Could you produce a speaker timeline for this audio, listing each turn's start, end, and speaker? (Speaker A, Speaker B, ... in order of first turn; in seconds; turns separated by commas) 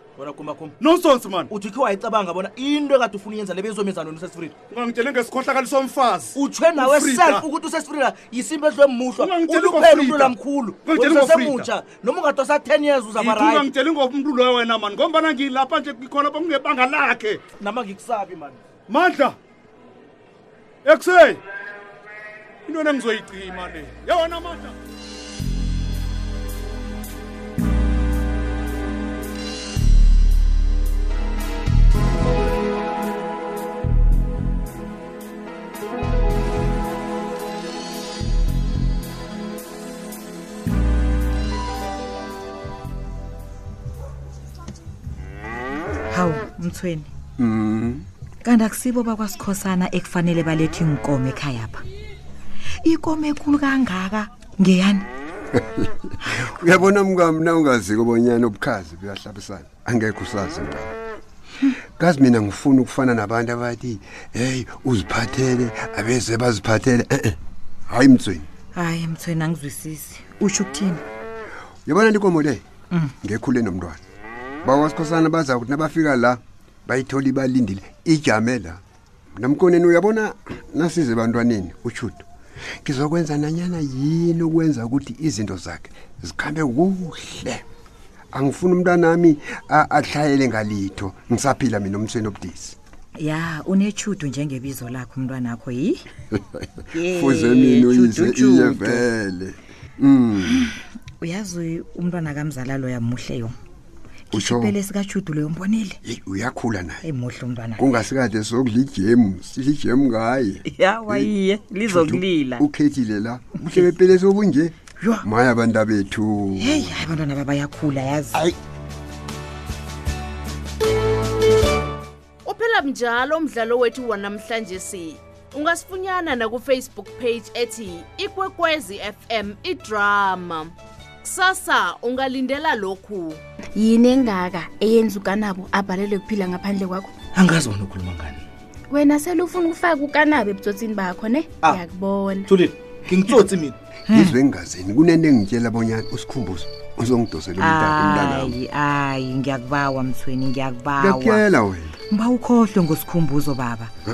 Speaker A: 0.2-0.8, Speaker B: 0.8-1.5, Speaker A: 1.5-4.5, Speaker B: 4.7-7.5, Speaker A: 6.4-13.7, Speaker B: 9.2-11.8, Speaker B: 13.1-17.5, Speaker A: 17.6-18.6, Speaker B: 18.9-19.4, Speaker B: 20.9-21.4, Speaker B: 22.7-24.8, Speaker C: 46.1-47.1, Speaker D: 47.4-48.0, Speaker C: 48.4-51.8, Speaker C: 52.8-55.1, Speaker D: 55.5-60.9, Speaker D: 62.0-67.4, Speaker D: 67.9-68.5, Speaker C: 68.8-71.0, Speaker D: 71.9-72.6, Speaker D: 73.2-74.0, Speaker D: 74.6-78.8, Speaker D: 79.3-82.3, Speaker D: 82.8-87.6, Speaker D: 88.3-92.8, Speaker C: 93.2-96.0, Speaker C: 96.9-99.1, Speaker D: 97.0-100.6, Speaker C: 100.4-103.5, Speaker D: 104.3-104.8, Speaker C: 104.3-106.0, Speaker D: 106.0-107.0, Speaker C: 107.0-107.9, Speaker D: 107.8-111.3, Speaker C: 110.7-112.7, Speaker D: 111.8-116.9, Speaker C: 116.6-118.4, Speaker E: 122.4-133.4, Speaker F: 133.8-137.1, Speaker A: 137.3-138.4, Speaker F: 138.9-142.6, Speaker A: 142.5-143.8, Speaker C: 144.1-144.4, Speaker D: 144.1-148.6, Speaker C: 147.6-151.4, Speaker D: 151.0-151.9, Speaker C: 152.1-153.9